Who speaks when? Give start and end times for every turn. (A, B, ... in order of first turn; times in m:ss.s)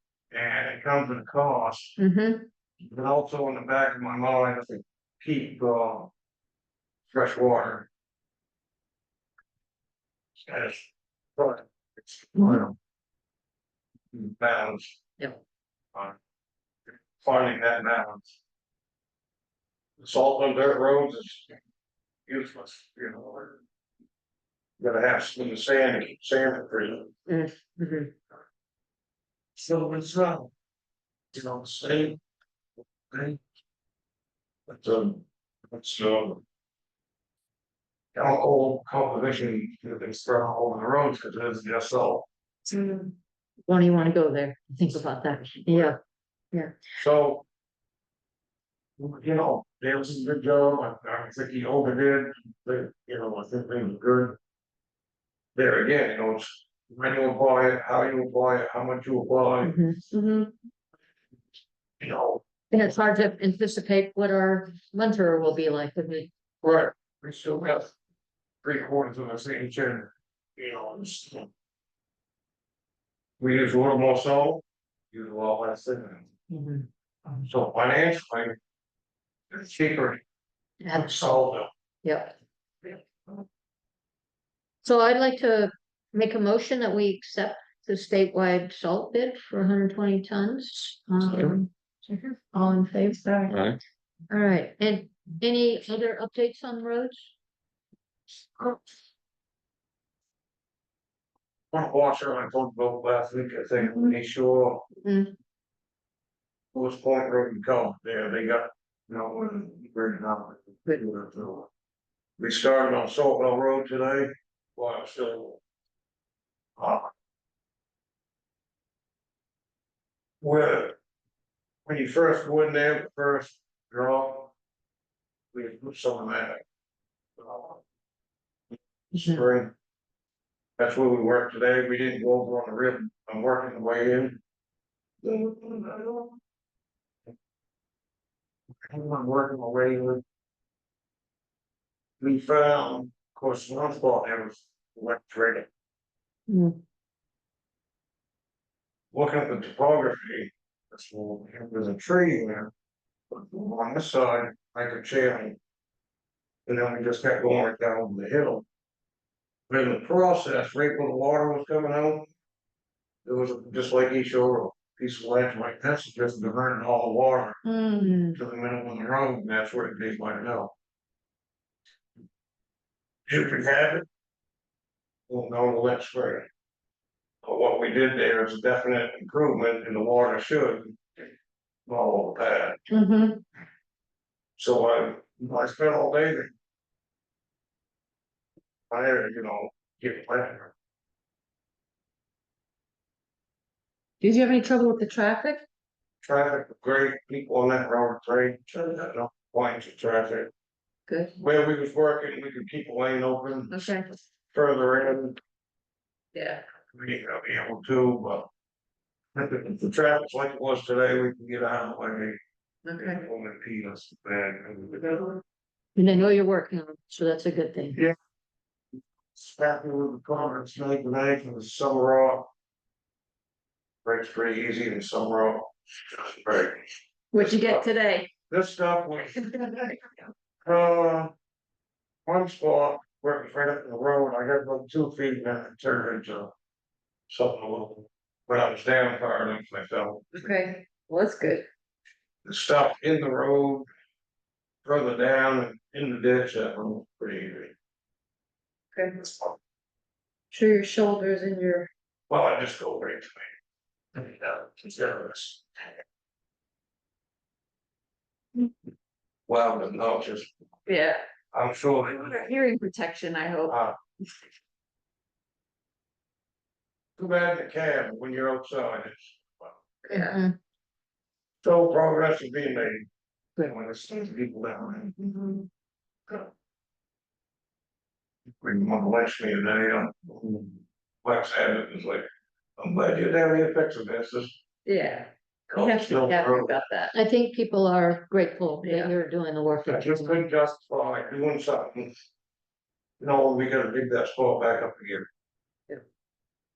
0:00.3-0:02.0 A
0:02.0-0:02.5 B
0:02.8-0:06.1 A
0:07.1-0:07.9 A
0:10.5-0:12.8 A
0:14.1-0:15.0 A
0:17.2-0:18.4 A
0:20.0-0:21.5 A
0:22.3-0:23.6 A
0:24.8-0:27.1 A
0:27.3-0:28.1 B
0:29.6-0:30.5 A
0:31.3-0:32.2 A
0:33.1-0:33.4 A
0:34.7-0:36.4 A
0:38.2-0:42.3 A
0:43.7-0:46.0 B
0:45.4-0:46.0 A
0:47.0-0:47.4 A
0:49.0-0:54.4 A
0:55.6-0:59.8 A
0:59.6-1:00.0 B
1:00.1-1:00.5 C
1:02.0-1:02.4 A
1:02.7-1:06.3 B
1:06.6-1:08.0 A
1:08.6-1:11.5 A
1:13.4-1:16.3 A
1:16.5-1:16.9 B
1:17.3-1:18.6 A
1:19.5-1:20.2 A
1:20.8-1:21.3 B
1:20.9-1:21.7 A
1:22.0-1:22.4 B
1:24.8-1:33.3 B
1:31.3-1:31.6 A
1:33.2-1:33.6 C
1:33.5-1:33.8 A
1:34.3-1:37.3 B
1:41.7-1:44.9 A
1:45.0-1:45.3 B
1:46.7-1:51.7 A
1:52.4-1:55.6 A
1:56.8-1:57.1 A
2:00.4-2:01.0 A
2:01.9-2:04.5 A
2:05.5-2:06.6 A
2:07.4-2:07.8 A
2:09.1-2:09.7 A
2:10.8-2:14.4 A
2:15.2-2:16.4 A
2:18.8-2:20.2 A
2:22.2-2:25.7 A
2:26.5-2:26.8 B
2:29.1-2:32.7 A
2:33.3-2:35.6 A
2:36.7-2:38.6 A
2:39.7-2:42.3 A
2:43.2-2:47.6 A
2:47.6-2:48.4 C
2:48.3-2:50.7 A
2:53.3-2:54.1 A
2:55.3-2:56.5 A
2:57.4-3:01.0 A
3:01.9-3:02.8 A
3:02.9-3:03.4 C
3:04.6-3:06.5 A
3:08.9-3:10.7 A
3:14.2-3:15.6 C
3:16.2-3:20.5 A
3:21.1-3:21.3 C
3:21.4-3:23.9 A
3:23.7-3:24.1 C
3:24.5-3:25.4 A
3:26.3-3:26.6 C
3:26.9-3:28.5 A
3:29.4-3:32.4 A
3:32.8-3:33.3 C
3:33.0-3:35.4 A
3:36.0-3:38.0 B
3:39.4-3:42.5 A
3:44.0-3:47.9 A
3:47.3-3:48.3 C
3:48.5-3:50.1 A
3:50.6-3:51.3 A
3:52.3-3:56.5 A
3:57.3-4:00.3 A
4:00.3-4:01.7 C
4:02.4-4:03.9 A
4:04.8-4:07.8 A
4:08.9-4:09.4 C
4:10.5-4:11.9 C
4:12.3-4:13.5 A
4:14.2-4:15.6 A
4:19.5-4:20.5 A
4:20.9-4:21.2 C
4:21.5-4:22.4 A
4:22.2-4:23.8 C
4:23.7-4:24.0 A
4:27.2-4:29.8 A
4:30.0-4:30.4 C
4:30.1-4:30.6 B
4:31.6-4:35.6 A
4:38.6-4:42.3 A
4:42.8-4:44.6 A
4:44.8-4:47.2 C
4:45.7-4:46.8 A
4:47.1-4:50.5 B
4:48.8-4:49.1 C
4:49.8-4:52.1 A
4:53.2-4:55.3 A